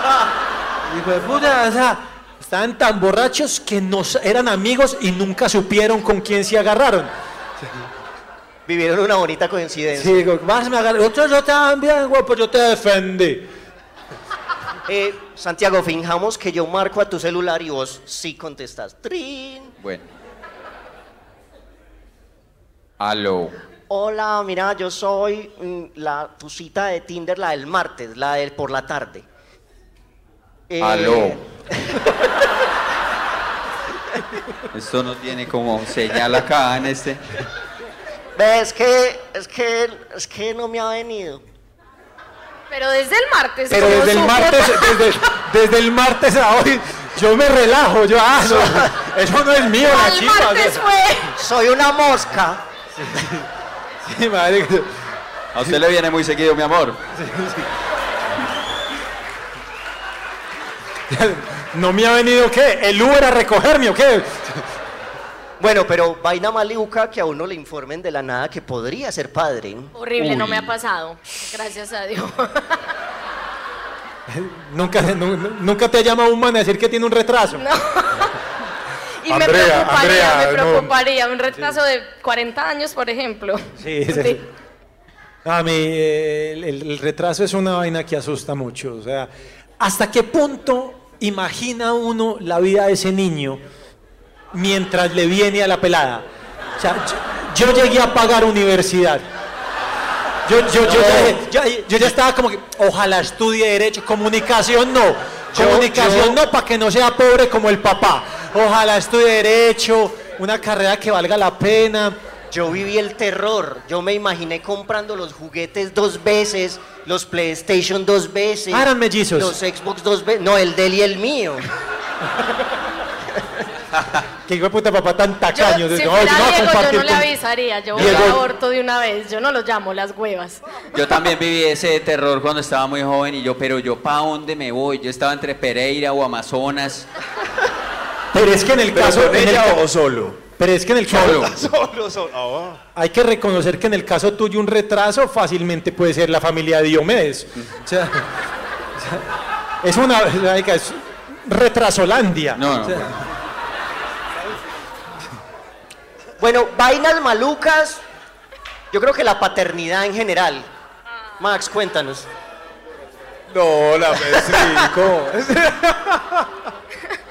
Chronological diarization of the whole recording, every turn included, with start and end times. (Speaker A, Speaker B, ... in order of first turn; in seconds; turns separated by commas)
Speaker A: 0.8-7.1, Speaker B: 8.7-10.2, Speaker A: 9.9-13.5, Speaker B: 14.9-19.7, Speaker C: 19.8-20.1, Speaker C: 23.0-23.5, Speaker B: 23.9-29.2, Speaker B: 30.7-32.1, Speaker C: 30.8-31.4, Speaker C: 34.7-37.2, Speaker B: 38.4-41.4, Speaker D: 42.7-45.1, Speaker A: 43.7-50.8, Speaker B: 48.4-48.9, Speaker D: 49.8-51.3, Speaker B: 51.4-52.6, Speaker A: 53.0-53.4, Speaker A: 54.0-54.9, Speaker C: 55.5-57.0, Speaker A: 57.2-57.6, Speaker A: 61.1-64.6, Speaker B: 65.6-69.9, Speaker D: 69.9-72.8, Speaker A: 70.2-70.7, Speaker A: 74.3-77.6, Speaker D: 77.5-78.3, Speaker D: 79.2-84.4, Speaker A: 79.3-80.9, Speaker A: 83.8-84.4, Speaker A: 85.4-93.6, Speaker A: 94.5-96.2, Speaker A: 96.8-99.2, Speaker A: 100.4-112.2, Speaker B: 100.7-101.4, Speaker B: 105.5-106.4, Speaker B: 112.5-121.7, Speaker A: 118.7-119.5, Speaker A: 124.5-127.3, Speaker D: 125.5-130.6, Speaker A: 127.9-128.4, Speaker C: 127.9-128.3, Speaker C: 130.9-137.1, Speaker A: 138.3-139.8, Speaker E: 138.9-140.4, Speaker A: 140.6-141.4, Speaker C: 141.1-141.5, Speaker E: 141.3-142.8, Speaker A: 142.9-148.3, Speaker A: 149.0-149.2, Speaker A: 149.8-153.2, Speaker C: 152.6-153.1, Speaker B: 156.4-158.0, Speaker B: 158.9-160.7, Speaker B: 161.4-162.3, Speaker E: 163.5-166.5, Speaker B: 164.3-164.9